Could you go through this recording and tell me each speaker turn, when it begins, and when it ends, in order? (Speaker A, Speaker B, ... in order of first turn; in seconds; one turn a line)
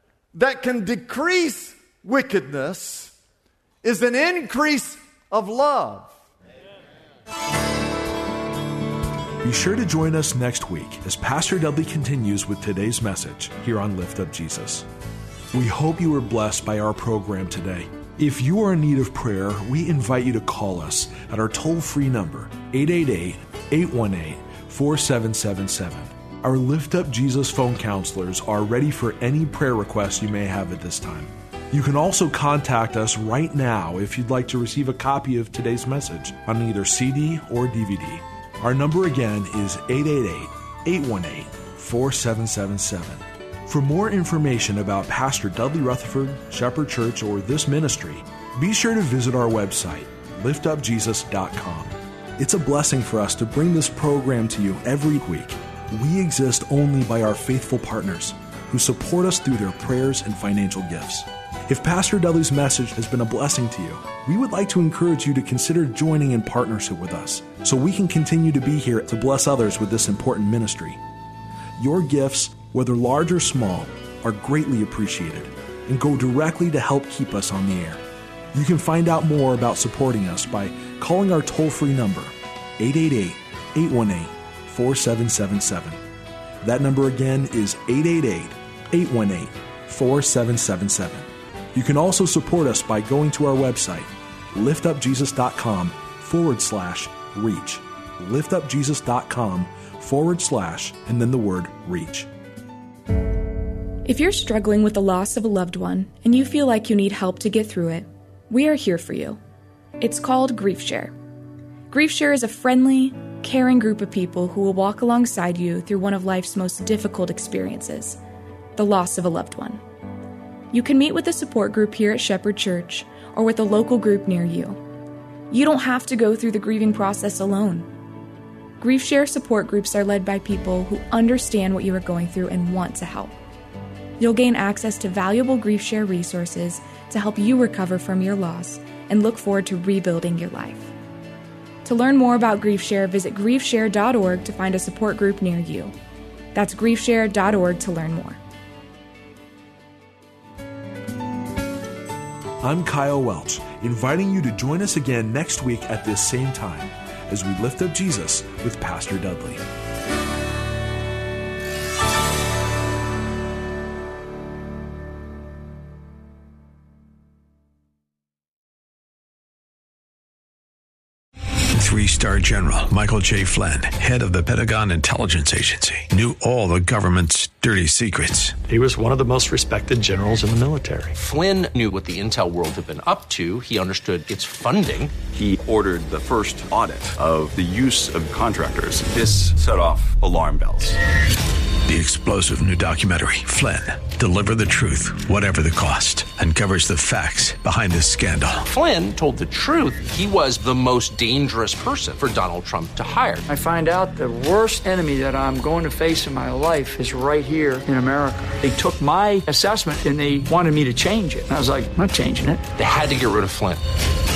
Speaker A: 0.3-3.1
Speaker A: 3.8-6.2
Speaker B: 9.4-14.9
Speaker B: 15.5-71.0
Speaker B: 71.8-78.0
Speaker B: 78.5-86.0
Speaker B: 86.6-102.3
Speaker C: 104.0-109.4
Speaker C: 110.0-111.1
Speaker C: 111.9-118.2
Speaker C: 118.8-119.8
Speaker C: 120.7-124.8
Speaker C: 125.5-127.9
Speaker C: 128.8-133.4
Speaker C: 134.2-140.9
Speaker C: 141.8-145.9
Speaker C: 146.5-148.4
Speaker B: 152.6-159.6
Speaker D: 171.7-178.6
Speaker E: 178.7-181.2
Speaker F: 181.2-185.2
Speaker G: 185.3-191.0
Speaker D: 191.9-198.7
Speaker F: 198.7-203.5
Speaker H: 203.5-212.6
Speaker F: 212.8-213.8